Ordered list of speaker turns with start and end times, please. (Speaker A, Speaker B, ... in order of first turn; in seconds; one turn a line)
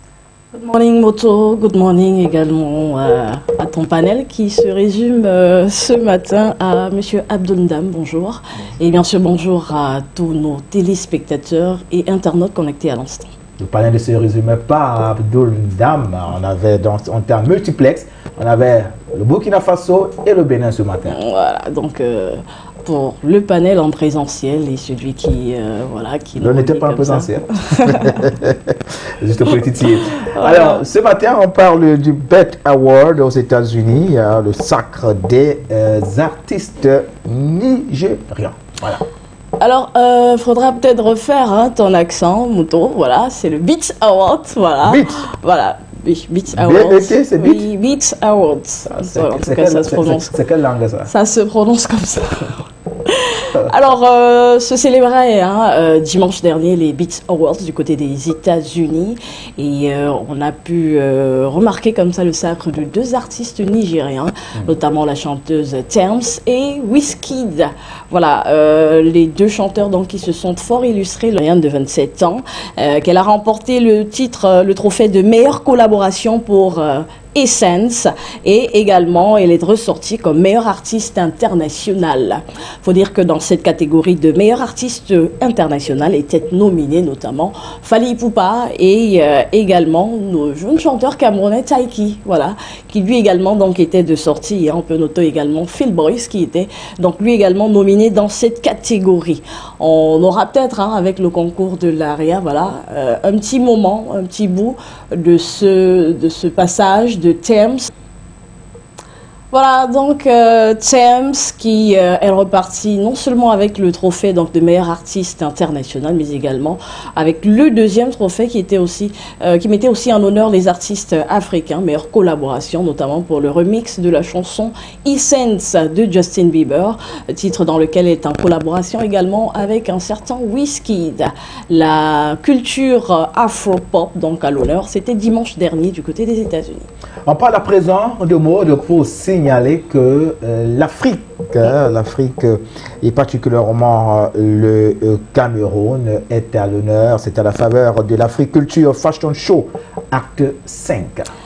Speaker A: 0.5-13.3
Speaker B: 13.6-21.2
Speaker A: 21.1-28.2
Speaker B: 26.4-39.0
Speaker A: 29.5-30.9
Speaker A: 39.6-50.3
Speaker B: 44.8-45.2
Speaker B: 46.5-47.7
Speaker B: 48.9-51.1
Speaker A: 51.0-107.9
Speaker A: 109.5-136.9
Speaker B: 137.3-151.3